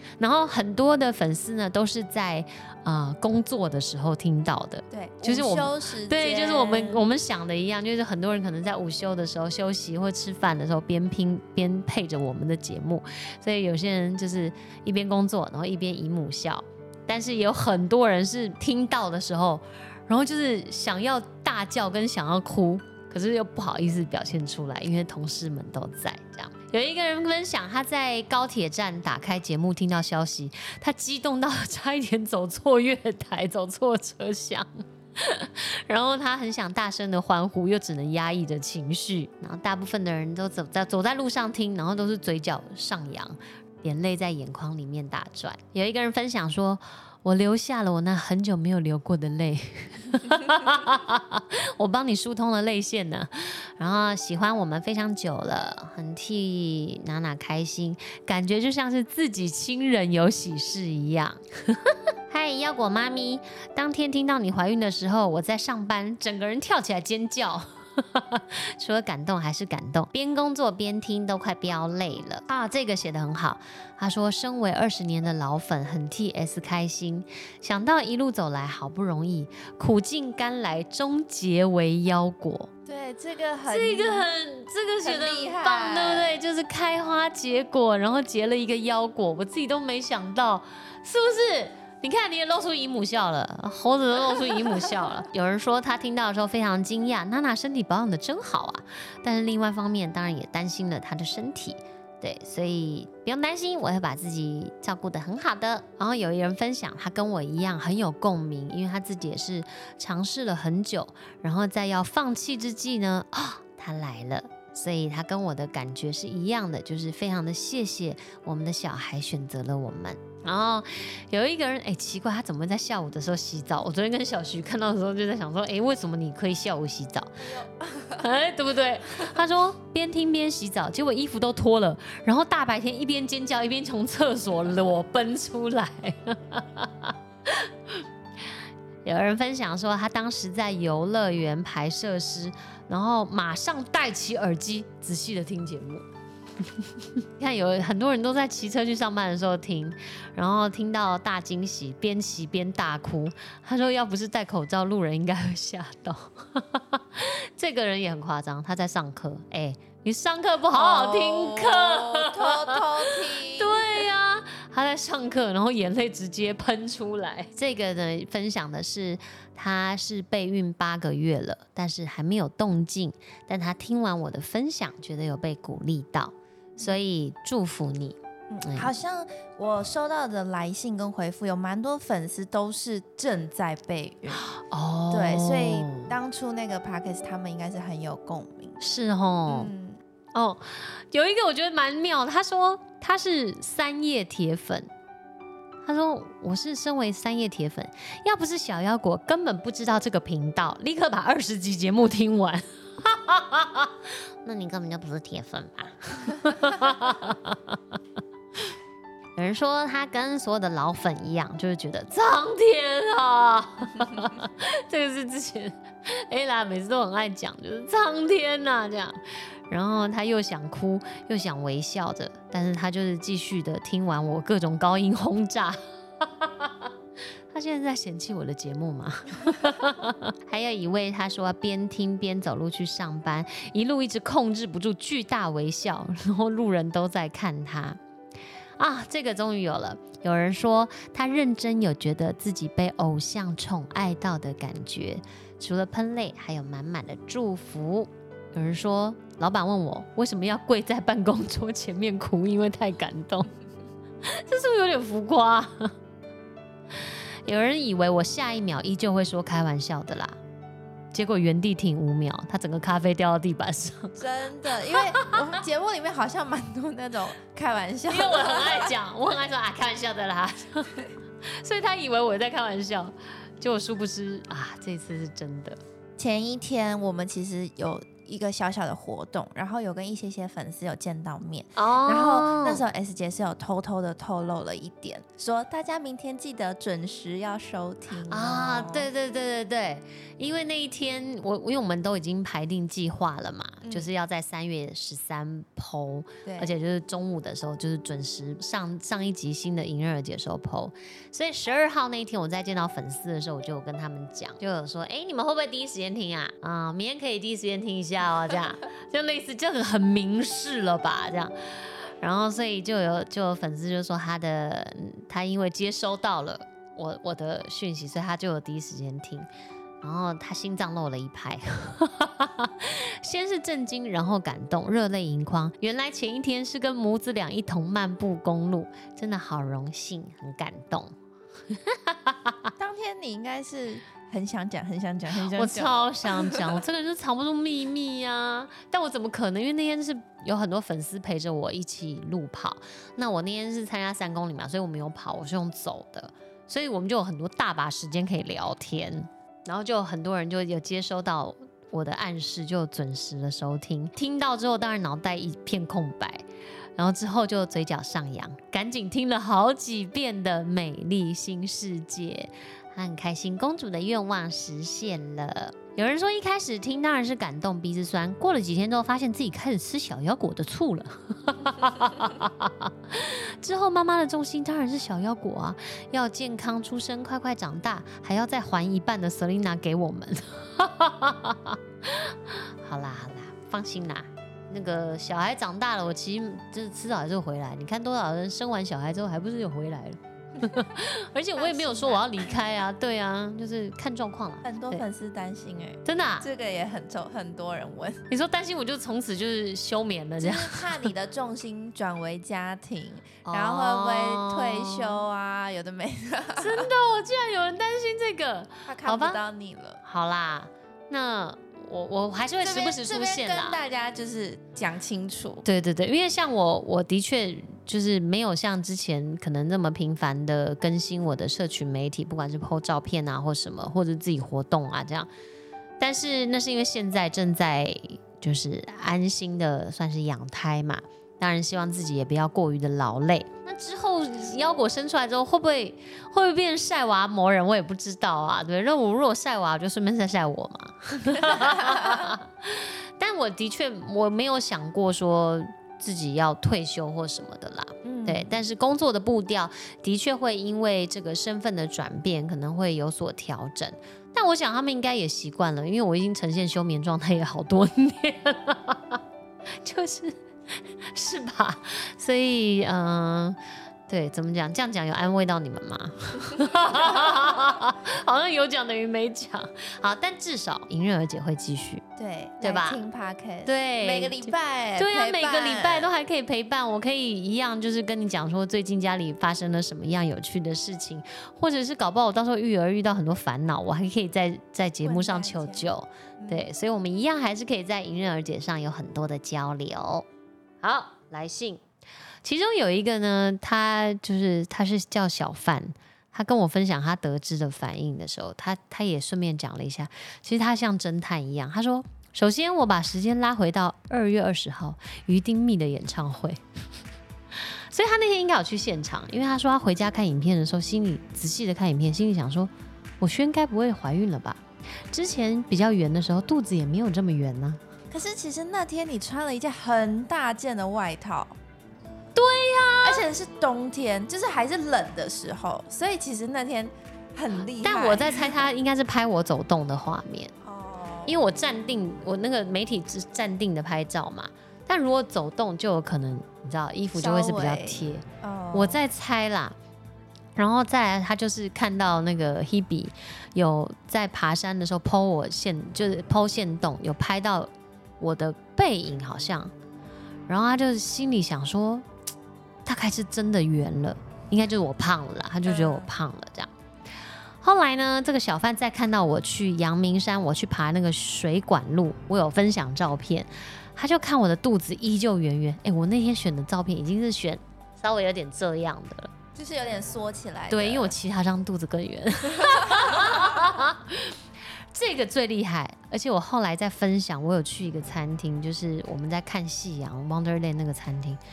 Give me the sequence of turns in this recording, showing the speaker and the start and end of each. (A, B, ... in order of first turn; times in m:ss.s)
0:00.2-1:22.7 A
0:04.9-0:07.0 B
1:22.9-1:24.3 B
1:23.7-2:07.5 A
1:25.0-1:26.4 B
2:07.4-2:08.3 B
2:08.2-2:18.0 A
2:19.0-2:26.0 A
2:27.4-2:58.9 A
2:40.7-2:44.1 B
2:58.5-3:04.4 B
3:04.4-3:06.2 A
3:05.1-3:08.8 B
3:08.8-3:09.7 A
3:09.5-3:10.0 B
3:10.4-3:14.9 A
3:15.8-3:27.8 A
3:29.4-3:46.7 A
3:47.5-3:58.0 A
3:58.8-4:13.5 A
4:14.2-4:15.9 A
4:17.4-4:20.4 A
4:21.1-4:24.2 A
4:24.2-4:28.9 B
4:25.0-4:25.4 A
4:28.1-4:35.8 A
4:36.2-4:49.1 B
4:41.8-4:42.8 A
4:48.2-5:19.5 A
4:53.8-4:54.1 B
4:56.4-4:56.7 B
5:20.0-5:31.2 A
5:31.7-5:32.7 A
5:32.8-5:36.8 B
5:35.5-5:56.4 A
5:57.0-6:35.0 A
6:31.6-6:32.6 B
6:34.6-6:38.2 B
6:36.0-6:36.5 A
6:38.3-6:41.1 A
6:40.4-6:46.9 B
6:43.4-6:45.2 A
6:46.6-6:49.4 A
6:48.9-6:50.0 B
6:50.0-6:53.8 A
6:52.6-6:55.6 B
6:55.6-7:05.3 A
7:06.0-7:39.2 A
7:21.3-7:22.2 B
7:28.0-7:28.5 B
7:39.8-7:40.4 A
7:41.1-7:52.0 A
7:52.2-7:56.1 B
7:52.6-7:53.0 A
7:53.6-8:10.3 A
8:05.0-8:06.7 B
8:10.8-8:11.8 A
8:12.4-8:26.6 A
8:27.6-8:34.6 A
8:35.1-8:37.8 A
8:38.1-8:41.6 B
8:42.4-8:43.2 A
8:43.0-8:48.6 B
8:47.8-8:50.5 A
8:50.6-8:51.4 B
8:51.3-8:59.8 A
8:57.1-8:59.0 B
9:00.6-9:09.7 A
9:10.5-9:12.1 A
9:12.8-9:16.7 A
9:15.6-9:16.1 B
9:17.6-9:29.3 A
9:29.6-9:31.2 B
9:30.7-9:34.4 A
9:32.6-9:33.7 B
9:34.9-9:41.4 A